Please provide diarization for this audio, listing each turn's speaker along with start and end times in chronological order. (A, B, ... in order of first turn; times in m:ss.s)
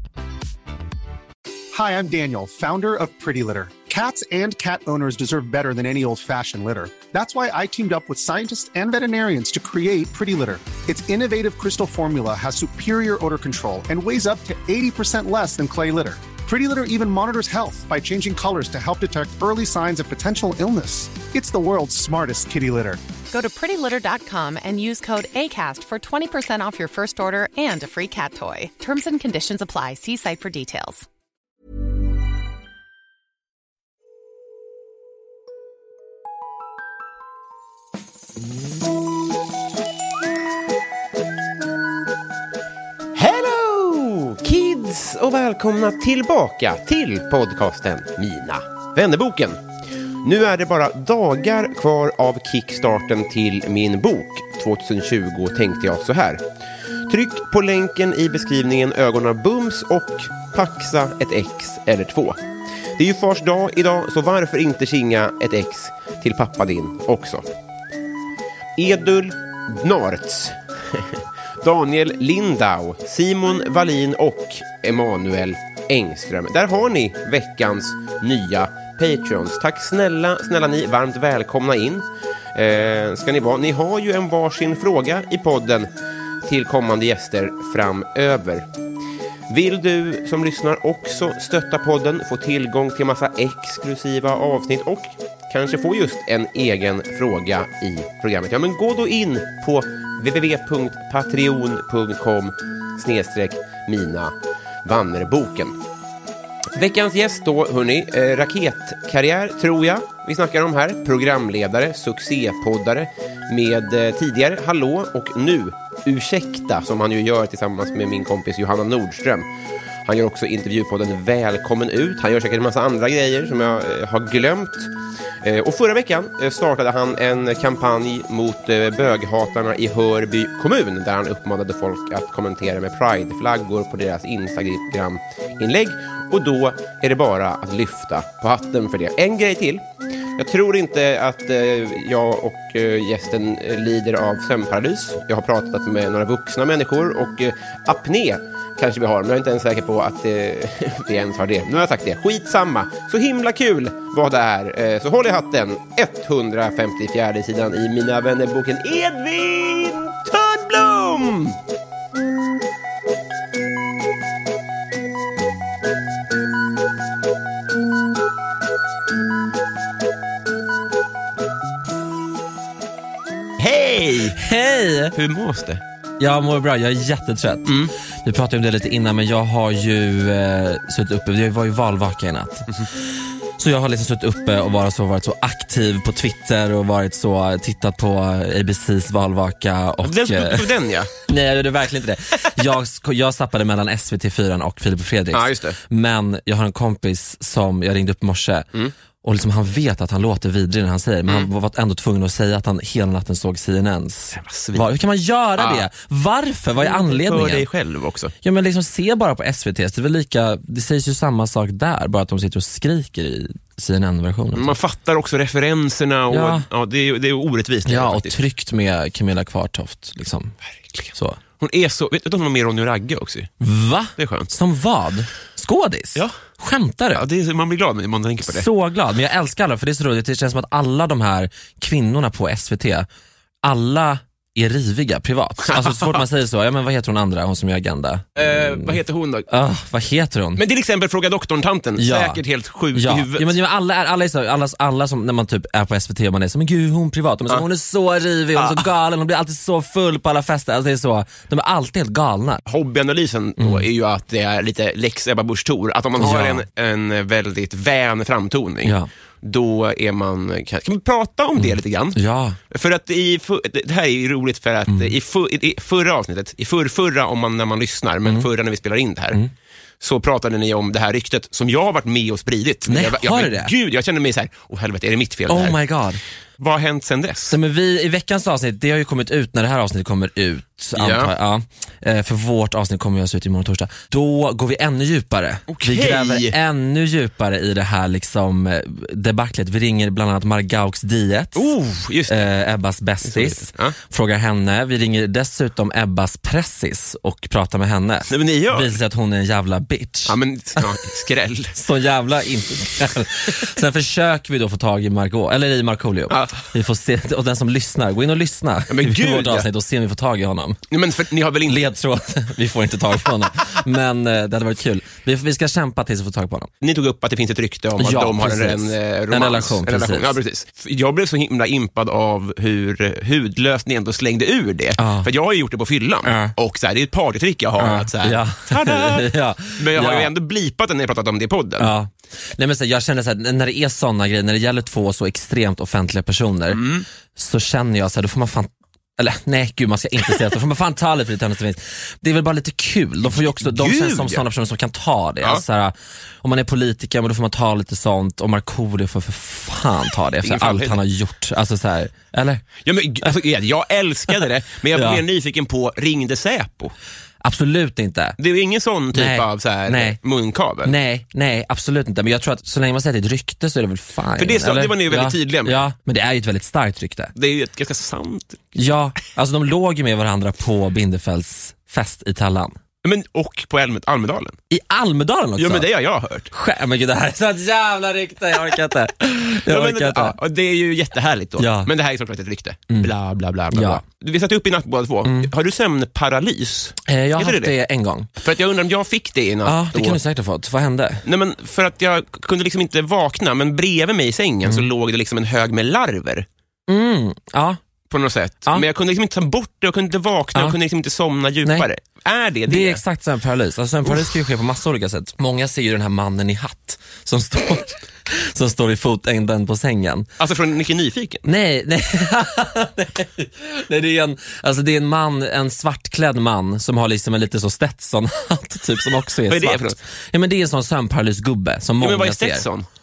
0:01.7-0:23.0 A
0:23.3-0:31.0 B
0:43.1-0:49.6 C
0:50.2-0:56.4 C
0:57.1-1:02.4 C
1:03.0-1:07.4 C
1:08.8-1:25.9 C
1:26.4-1:28.6 C
1:29.5-1:44.3 C
1:44.8-1:45.8 C
1:46.8-1:59.4 C
2:00.0-2:04.9 C
2:05.4-2:19.8 C
2:20.4-2:41.6 C
2:53.6-2:54.4 C
2:54.3-2:55.2 D
2:55.1-2:55.8 C
2:56.2-3:02.7 D
2:57.7-2:57.9 C
3:03.6-3:18.7 D
3:10.0-3:11.1 C
3:15.3-3:15.8 C
3:19.2-3:27.6 D
3:24.3-3:24.8 C
3:25.6-3:25.8 C
3:26.8-3:28.3 C
3:28.4-3:34.7 D
3:34.5-3:38.3 C
3:36.3-3:36.6 D
3:37.8-3:40.5 D
3:40.9-3:43.5 C
3:43.6-3:47.2 D
3:44.2-3:44.5 C
3:47.1-3:48.7 C
3:48.4-3:53.1 D
3:53.6-3:59.0 D
3:55.6-3:56.2 C
3:58.4-3:59.5 C
3:59.5-4:00.6 D
4:00.6-4:03.6 C
4:02.0-4:02.4 D
4:02.9-4:12.6 D
4:08.6-4:08.8 C
4:12.7-4:29.4 C
4:13.6-4:13.8 D
4:16.2-4:16.6 D
4:18.8-4:19.1 D
4:21.6-4:22.6 D
4:30.0-4:35.8 C
4:32.9-4:33.7 D
4:35.5-4:36.2 D
4:36.6-4:37.6 C
4:37.5-4:51.7 D
4:41.0-4:41.3 C
4:45.7-4:46.6 C
4:51.6-4:52.5 C
4:52.3-5:00.9 D
4:53.2-4:53.9 C
4:58.3-4:58.9 C
5:00.3-5:01.8 C
5:01.7-5:10.8 D
5:06.3-5:06.6 C
5:08.9-5:09.7 C
5:10.9-5:11.9 C
5:11.6-5:16.7 D
5:16.8-5:31.9 C
5:18.0-5:20.4 D
5:25.0-5:25.3 D
5:26.2-5:26.5 D
5:27.8-5:30.3 D
5:31.8-5:36.8 D
5:36.7-5:37.0 C
5:37.4-5:52.6 D
5:43.3-5:44.4 C
5:50.4-5:51.0 C
5:52.8-5:56.9 C
5:54.9-5:55.2 D
5:57.4-5:58.4 D
5:58.4-6:00.9 C
5:59.1-6:00.2 D
6:00.8-6:07.3 D
6:04.4-6:05.8 C
6:07.4-6:08.6 C
6:08.7-6:12.8 D
6:13.0-6:14.6 C
6:14.7-6:15.9 D
6:15.6-6:16.5 C
6:16.5-6:20.4 D
6:19.7-6:27.7 C
6:21.6-6:21.9 D
6:23.7-6:24.0 D
6:25.2-6:25.5 D
6:27.0-6:28.3 D
6:28.4-6:30.2 C
6:29.6-6:31.2 D
6:31.2-6:36.4 C
6:36.9-6:37.8 D
6:38.1-6:43.0 C
6:42.7-6:50.3 D
6:44.0-6:44.3 C
6:50.4-6:51.4 C
6:51.4-7:02.7 D
6:59.5-7:00.0 C
7:02.0-7:02.8 C